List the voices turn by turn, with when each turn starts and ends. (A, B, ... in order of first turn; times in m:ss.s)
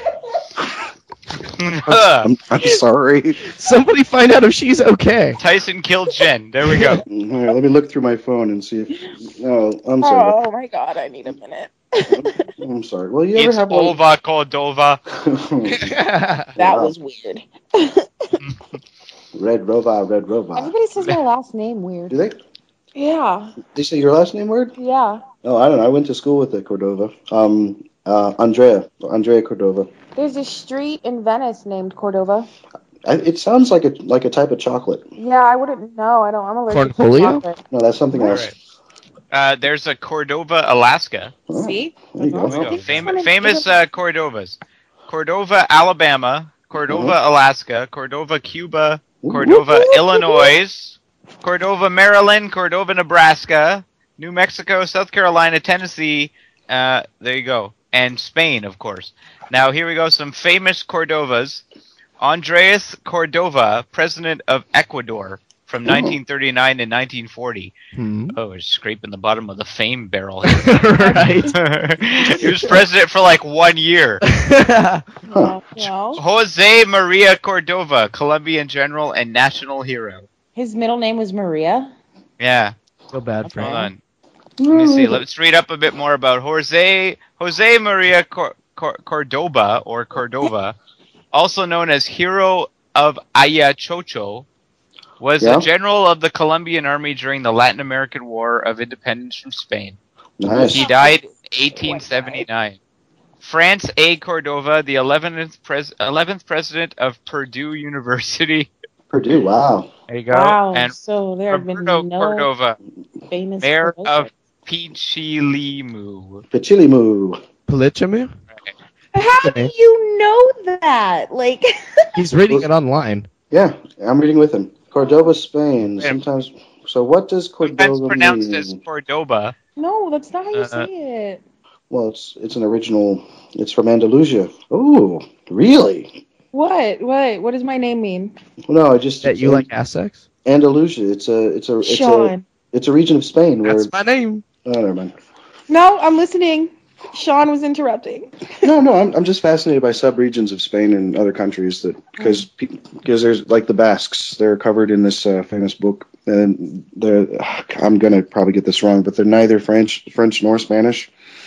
0:01.5-0:02.3 A
0:02.2-0:03.4 B
0:03.4-0:05.4 C
0:05.4-0:07.0 A
0:07.1-0:10.4 B
0:10.0-0:12.5 D
0:12.1-0:14.0 B
0:13.4-0:15.0 A
0:15.2-0:16.0 B
0:15.7-0:16.5 C
0:16.6-0:16.9 B
0:16.6-0:18.3 D
0:19.4-0:20.7 B
0:20.6-0:22.1 D
0:22.1-0:22.4 B
0:23.0-0:23.6 D
0:23.7-0:24.8 B
0:24.8-0:25.2 D
0:25.4-0:29.9 B
0:30.2-0:32.5 D
0:33.1-0:35.1 B
0:35.2-0:37.6 D
0:36.7-0:37.4 C
0:37.7-0:38.5 B
0:38.2-0:38.6 A
0:39.3-0:41.4 A
0:41.5-0:42.9 B
0:41.5-0:43.7 D
0:42.4-0:44.6 A
0:45.1-1:01.6 A
0:46.9-0:47.2 B
0:49.2-0:49.6 B
0:49.6-0:50.5 D
1:02.2-1:07.7 A
1:08.0-1:08.4 C
1:08.3-1:10.8 A
1:10.5-1:11.6 C
1:11.0-1:11.5 D
1:11.5-1:14.2 A
1:14.2-1:15.0 C
1:15.3-1:15.9 B
1:15.3-1:16.2 D
1:16.2-1:20.3 A
1:20.6-1:21.9 D
1:22.4-1:22.7 A
1:23.1-1:23.8 C
1:23.5-1:23.9 D
1:23.6-1:24.0 A
1:24.6-1:25.2 B
1:24.7-1:30.8 A
1:31.3-1:34.5 A
1:35.2-1:40.0 A
1:35.4-1:35.7 B
1:40.4-1:40.8 B
1:40.5-1:42.8 A
1:40.6-1:42.4 D
1:43.4-1:48.7 A
1:49.1-1:49.9 B
1:50.1-1:51.0 A
1:50.3-1:52.5 D
1:51.5-1:52.8 A
1:53.3-1:54.3 D
1:53.6-1:56.4 A
1:56.5-1:57.4 B
1:57.7-1:58.3 C
1:59.1-2:02.1 D
1:59.4-1:59.7 C
2:02.2-2:03.3 C
2:03.5-2:08.8 B
2:05.0-2:05.3 D
2:07.6-2:09.6 A
2:09.8-2:11.4 D
2:10.5-2:10.9 A
2:11.9-2:16.2 B
2:16.5-2:18.4 D
2:18.7-2:19.7 B
2:19.2-2:20.2 C
2:20.4-2:23.9 B
2:21.8-2:22.5 D
2:23.6-2:24.4 C
2:24.6-2:25.1 B
2:25.7-2:28.7 D
2:28.6-2:41.1 B
2:32.2-2:32.4 D